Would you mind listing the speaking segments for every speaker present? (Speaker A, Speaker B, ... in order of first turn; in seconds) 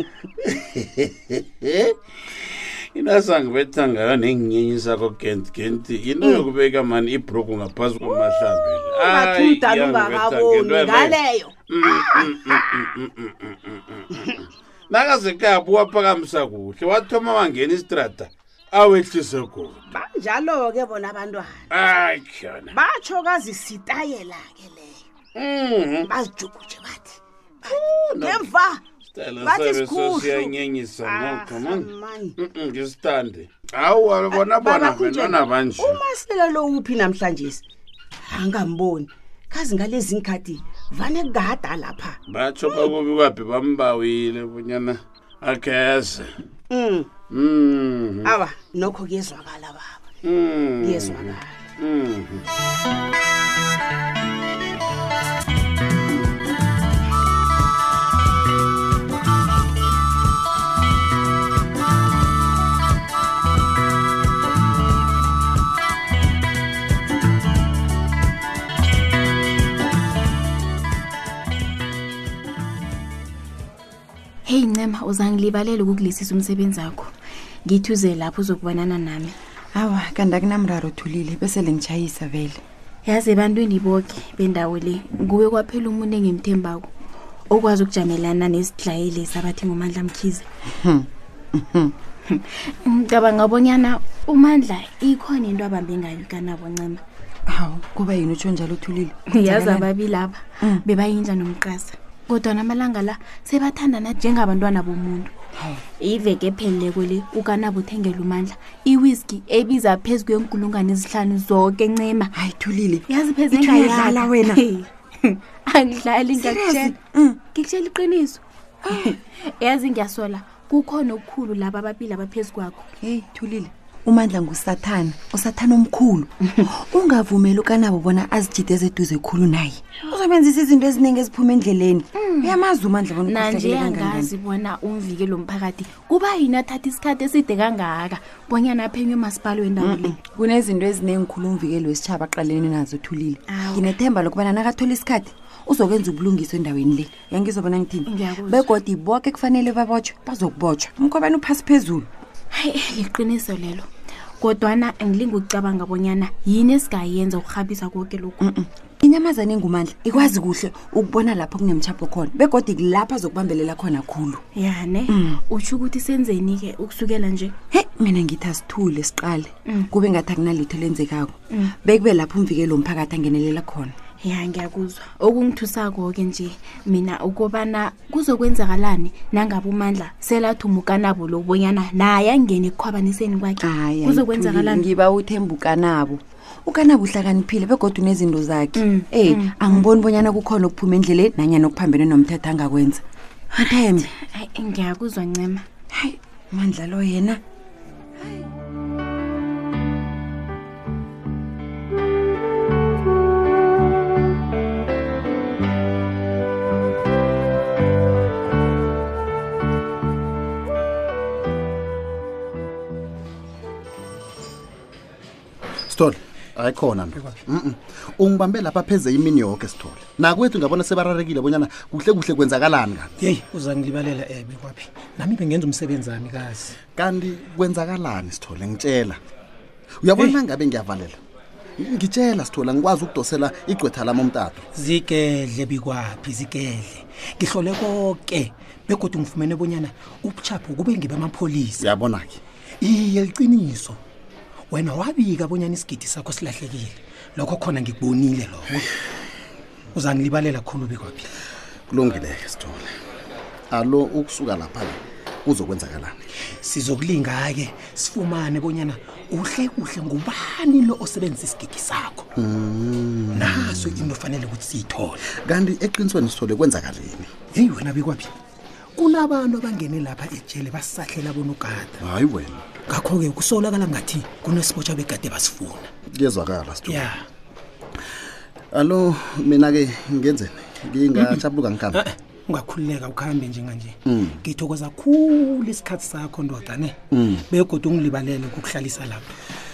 Speaker A: 0.4-19.8, 21.7-22.8, 25.4-26.1, 27.7-28.5, 29.1-31.9, 32.4-36.0, 42.3-46.3, 47.3-48.3, 50.3-52.4
Speaker B: 8.2-12.6, 19.9-21.6, 22.7-25.0, 26.1-28.8, 29.4-32.3, 34.3-37.6, 38.2-42.2, 46.7-47.1, 48.2-50.0, 50.8-51.6
Speaker C: 74.5-77.1, 77.7-79.4, 83.0-86.9, 87.5-90.5, 92.3-97.0, 99.3-105.3, 106.0-112.3, 113.1-118.4, 119.0-122.8, 132.2-132.6, 133.2-140.2, 143.5-143.9, 148.1-148.7, 152.5-153.9, 154.4-158.5, 164.6-167.5, 174.2-184.9, 188.8-189.9, 193.7-195.7
Speaker D: 79.7-82.6, 90.8-91.9, 97.5-99.9, 112.3-114.6, 116.3-117.4, 118.8-119.2, 123.0-134.3, 139.8-152.1, 158.4-164.4, 165.1-165.4, 167.7-174.0, 183.6-194.1, 195.9-197.4
Speaker E: 215.9-223.2, 226.9-229.2, 230.0-231.2, 231.8-234.7, 241.8-242.4, 251.9-252.9, 253.7-256.2, 262.4-264.1, 265.4-267.3, 272.0-272.6, 276.1-277.1, 278.7-282.0, 284.1-284.4, 287.1-287.4
Speaker F: 223.2-226.8, 234.7-241.9, 242.8-244.0, 244.7-248.9, 249.9-251.3, 256.5-262.3, 263.3-265.2, 267.5-268.3, 269.0-272.0, 272.9-275.9, 276.9-277.2, 281.1-281.4, 281.9-289.3